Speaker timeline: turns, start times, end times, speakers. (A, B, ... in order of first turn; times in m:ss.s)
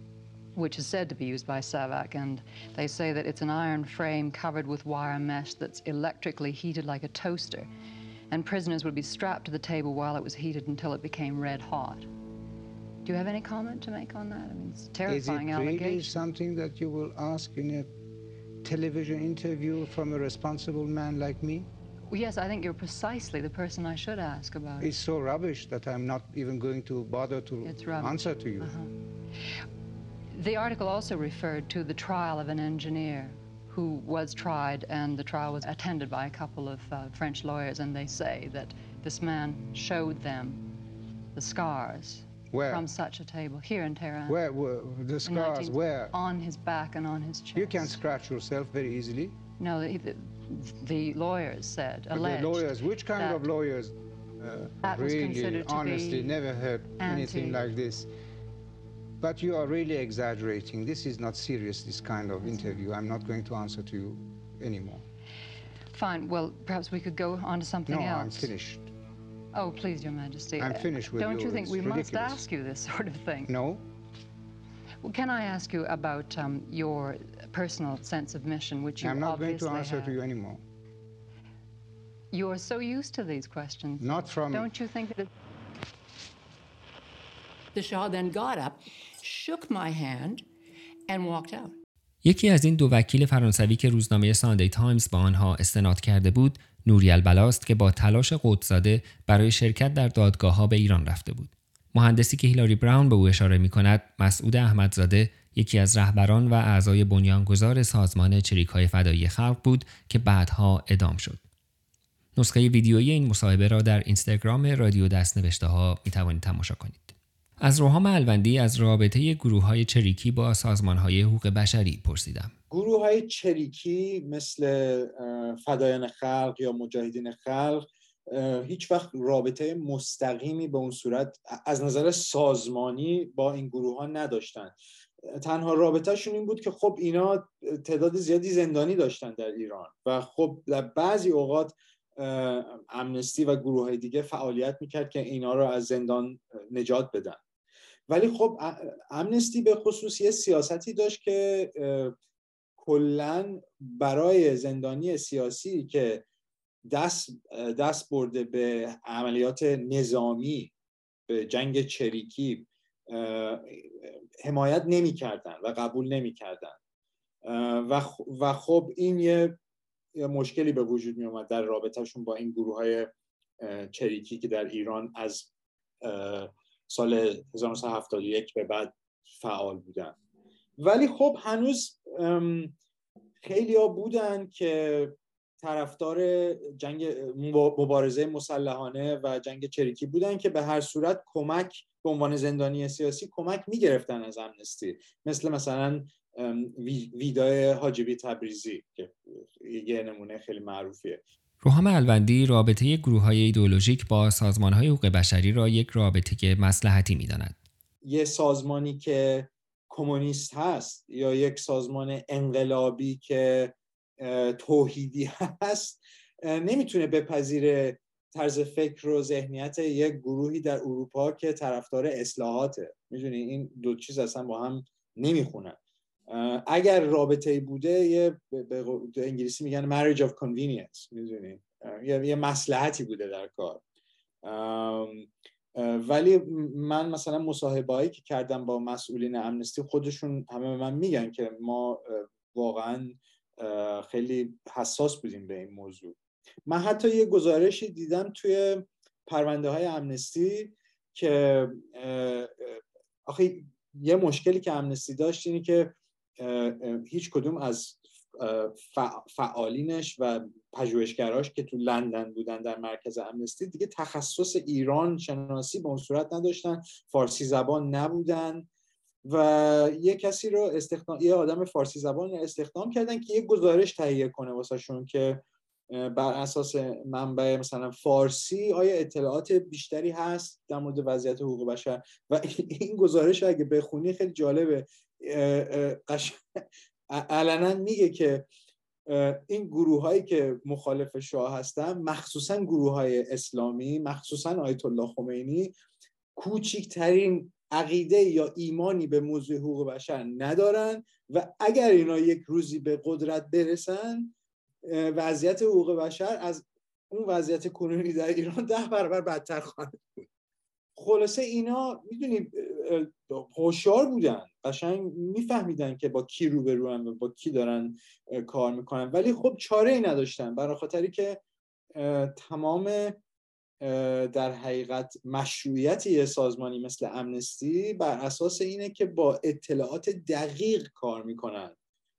0:00.6-0:07.7 A
0:08.3-0:12.1 A
0:13.0-0:16.2 A
0:15.1-0:18.0 B
0:18.6-0:21.7 B
0:22.1-0:25.0 A
0:24.8-0:28.7 B
0:27.6-0:28.9 A
0:30.3-0:40.6 A
0:41.4-0:44.4 A
0:42.5-0:42.9 B
0:44.3-0:46.2 B
0:45.2-0:48.0 A
0:47.6-0:49.4 B
0:49.6-0:53.5 A
0:52.1-0:58.1 B
0:54.8-0:56.4 A
0:57.0-0:57.7 A
0:59.2-1:05.0 B
1:05.9-1:08.5 A
1:07.9-1:08.9 B
1:09.5-1:13.6 A
1:10.6-1:12.4 B
1:13.5-1:13.8 B
1:15.0-1:20.2 A
1:19.0-1:20.6 B
1:22.3-1:25.3 A
1:24.0-1:24.7 B
1:27.7-1:30.4 C
1:31.1-1:31.8 C
1:32.2-1:51.4 D
1:52.4-2:02.5 D
2:02.7-2:14.8 E
2:15.3-2:27.4 E
2:28.1-2:32.1 E
2:32.8-2:36.2 E
2:36.9-2:40.7 E
2:41.3-2:46.8 E
2:47.4-2:49.6 E
2:50.2-2:53.1 E
2:53.6-2:55.5 E
2:56.0-3:00.1 E
3:00.8-3:02.8 E
3:03.4-3:21.2 E
3:21.6-3:27.6 D
3:28.0-3:45.8 E
3:46.3-3:53.8 E
3:54.4-4:06.2 E
4:06.7-4:28.7 E
4:29.2-4:35.4 E
4:35.9-4:46.4 E
4:47.1-4:48.4 E
4:49.1-4:55.7 E
4:56.4-5:04.3 E
5:04.9-5:10.2 E
5:11.0-5:21.4 E
5:22.0-5:23.2 E
5:23.8-5:31.8 E